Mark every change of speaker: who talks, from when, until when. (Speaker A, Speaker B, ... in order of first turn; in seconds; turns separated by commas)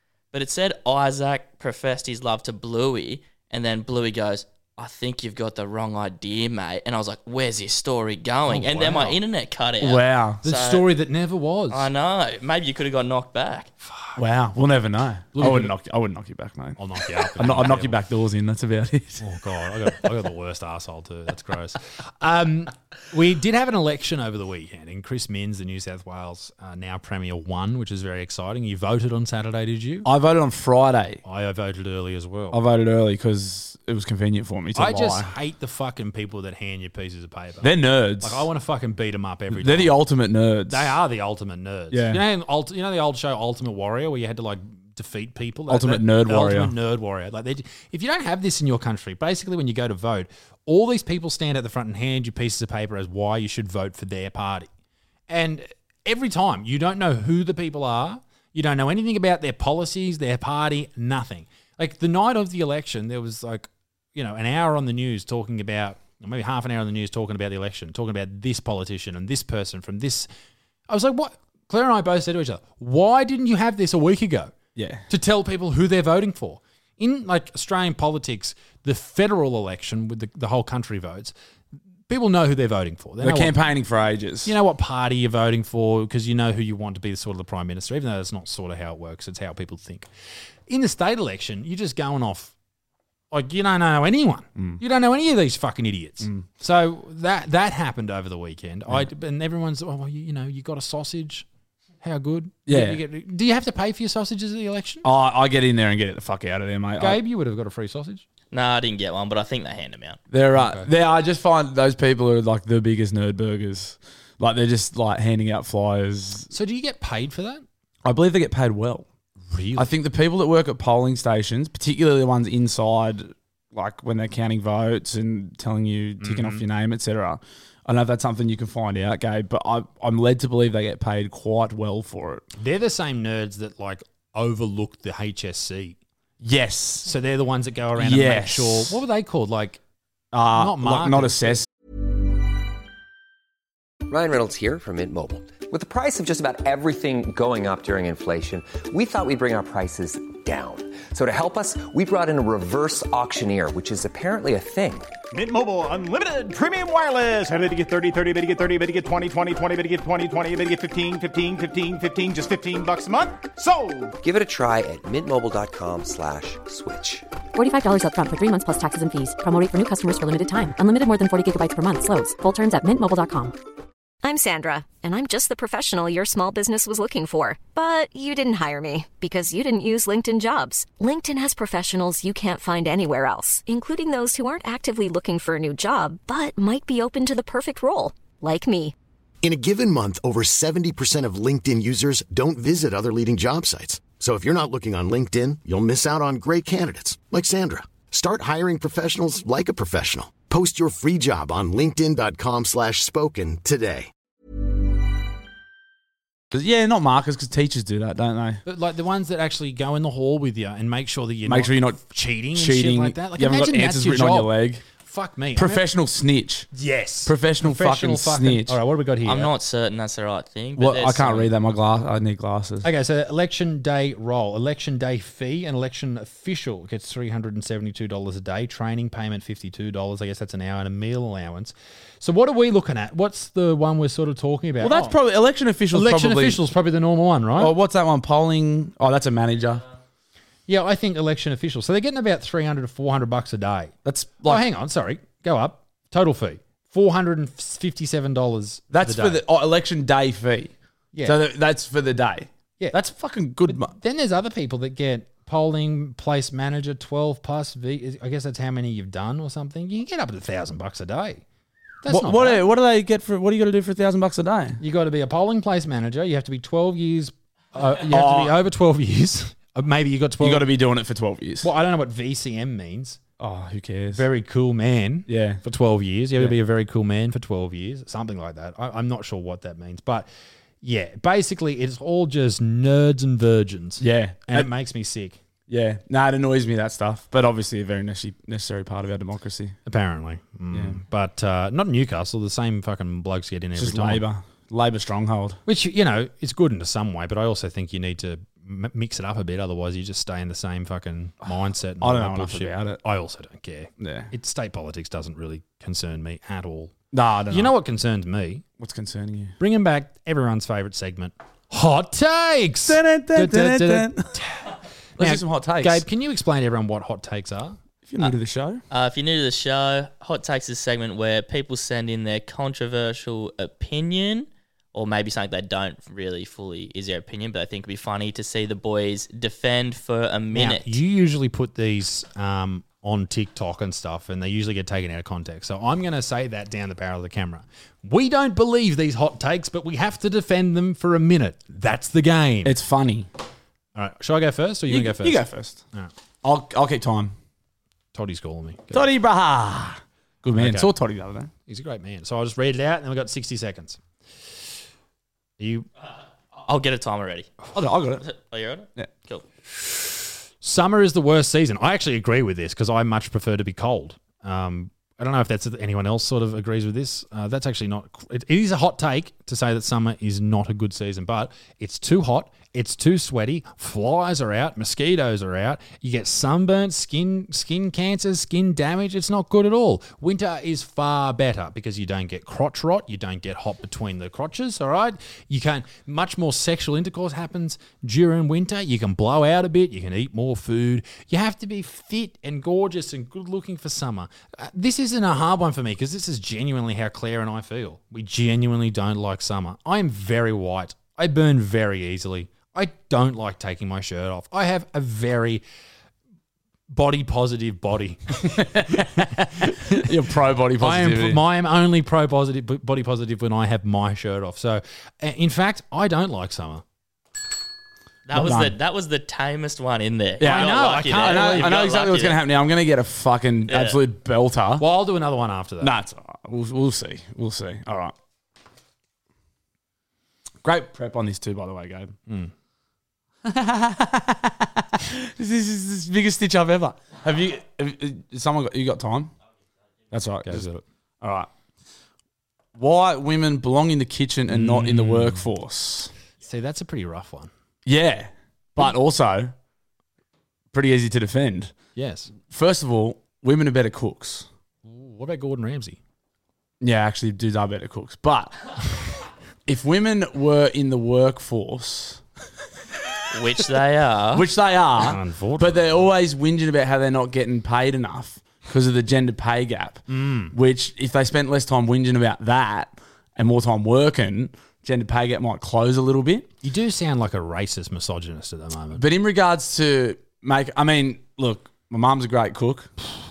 Speaker A: 0.3-10.9, Speaker B: 8.5-9.2, Speaker C: 9.8-10.4, Speaker B: 10.4-11.9, Speaker A: 11.7-13.7, Speaker C: 14.2-19.2, Speaker B: 15.3-15.7, Speaker B: 16.8-18.0, Speaker B: 19.2-30.1, Speaker C: 30.1-31.2, Speaker B: 31.2-32.6, Speaker C: 32.5-35.3, Speaker B: 34.8-40.0, Speaker C: 37.6-38.5, Speaker C: 39.5-41.0, Speaker B: 40.7-54.7, Speaker C: 41.9-42.2, Speaker C: 45.7-46.7, Speaker B: 55.3-70.3, Speaker B: 70.9-74.5, Speaker C: 74.8-75.0, Speaker B: 75.1-81.3, Speaker B: 82.1-83.6, Speaker C: 83.2-84.5, Speaker B: 84.5-90.1, Speaker B: 90.7-92.5, Speaker B: 93.3-101.5, Speaker B: 102.0-105.1, Speaker C: 102.7-103.0, Speaker C: 105.0-107.2, Speaker B: 107.0-108.2, Speaker A: 108.5-110.2, Speaker C: 110.3-116.5, Speaker B: 110.5-110.9, Speaker B: 116.5-117.7, Speaker C: 118.0-119.1, Speaker B: 119.5-119.9, Speaker C: 119.8-132.5, Speaker B: 126.2-126.6, Speaker B: 132.6-136.0, Speaker C: 136.4-137.1, Speaker B: 137.1-139.8, Speaker C: 138.0-139.0, Speaker C: 140.3-141.7, Speaker B: 140.5-141.6, Speaker D: 144.1-155.1, Speaker E: 155.3-164.1, Speaker D: 164.2-167.3, Speaker F: 167.6-173.6, Speaker G: 174.2-188.9, Speaker H: 189.4-204.1, Speaker C: 206.5-208.6, Speaker B: 208.7-215.8, Speaker C: 211.4-212.0, Speaker C: 212.5-214.8, Speaker C: 215.5-216.7, Speaker B: 216.7-219.5, Speaker C: 217.2-218.8, Speaker A: 219.2-221.5, Speaker C: 220.8-222.9, Speaker B: 222.8-235.2, Speaker C: 234.8-236.6, Speaker B: 235.9-237.7, Speaker C: 237.6-239.8, Speaker B: 240.7-249.4, Speaker C: 244.1-244.6, Speaker C: 248.9-253.9, Speaker B: 251.1-251.4, Speaker B: 253.7-261.4, Speaker B: 262.0-262.7, Speaker C: 262.1-264.8, Speaker B: 264.8-270.7, Speaker C: 268.1-268.5, Speaker C: 270.4-271.7, Speaker B: 271.6-273.2, Speaker C: 273.4-274.2, Speaker B: 274.1-280.3, Speaker C: 275.3-275.6, Speaker B: 280.8-285.4, Speaker C: 284.0-284.7, Speaker C: 285.7-289.8, Speaker B: 289.9-294.2, Speaker C: 290.7-291.0, Speaker C: 293.8-295.6, Speaker B: 295.7-306.9, Speaker C: 302.0-303.0, Speaker C: 304.0-304.3, Speaker C: 307.1-307.8, Speaker B: 307.5-308.6, Speaker C: 308.8-309.6, Speaker B: 309.6-314.6, Speaker C: 312.9-314.4, Speaker C: 315.2-316.1, Speaker B: 315.2-317.8, Speaker C: 318.1-318.8, Speaker A: 318.9-331.0, Speaker B: 330.5-342.8, Speaker C: 342.6-343.3, Speaker B: 344.0-346.1, Speaker C: 344.9-345.8, Speaker C: 346.4-347.3, Speaker B: 348.1-349.1, Speaker C: 348.9-351.5, Speaker B: 350.5-350.9, Speaker B: 351.7-354.0, Speaker B: 355.6-355.9, Speaker A: 356.6-357.5, Speaker C: 357.8-358.2, Speaker A: 358.2-359.4, Speaker B: 360.6-405.6, Speaker B: 406.9-409.1, Speaker C: 408.4-411.4, Speaker B: 409.6-410.1, Speaker B: 410.8-416.8, Speaker A: 418.3-422.4, Speaker C: 418.3-418.8, Speaker C: 420.4-424.9, Speaker B: 420.4-421.7, Speaker A: 423.7-424.0, Speaker B: 424.8-425.9, Speaker C: 425.8-428.1, Speaker C: 430.6-432.1, Speaker B: 432.3-432.5, Speaker C: 433.4-439.3, Speaker C: 440.1-440.7, Speaker B: 440.4-440.8, Speaker C: 441.2-441.5, Speaker C: 442.8-446.1, Speaker B: 444.5-445.5, Speaker B: 446.4-447.5, Speaker C: 447.9-449.5, Speaker C: 450.7-451.7, Speaker B: 451.9-452.3, Speaker C: 452.4-454.5, Speaker B: 454.8-456.0, Speaker C: 456.8-459.0, Speaker C: 459.7-462.2, Speaker C: 463.1-463.5, Speaker A: 463.3-464.5, Speaker C: 464.3-476.5, Speaker B: 465.0-466.1, Speaker B: 470.1-470.5, Speaker B: 476.6-479.0, Speaker C: 478.9-482.9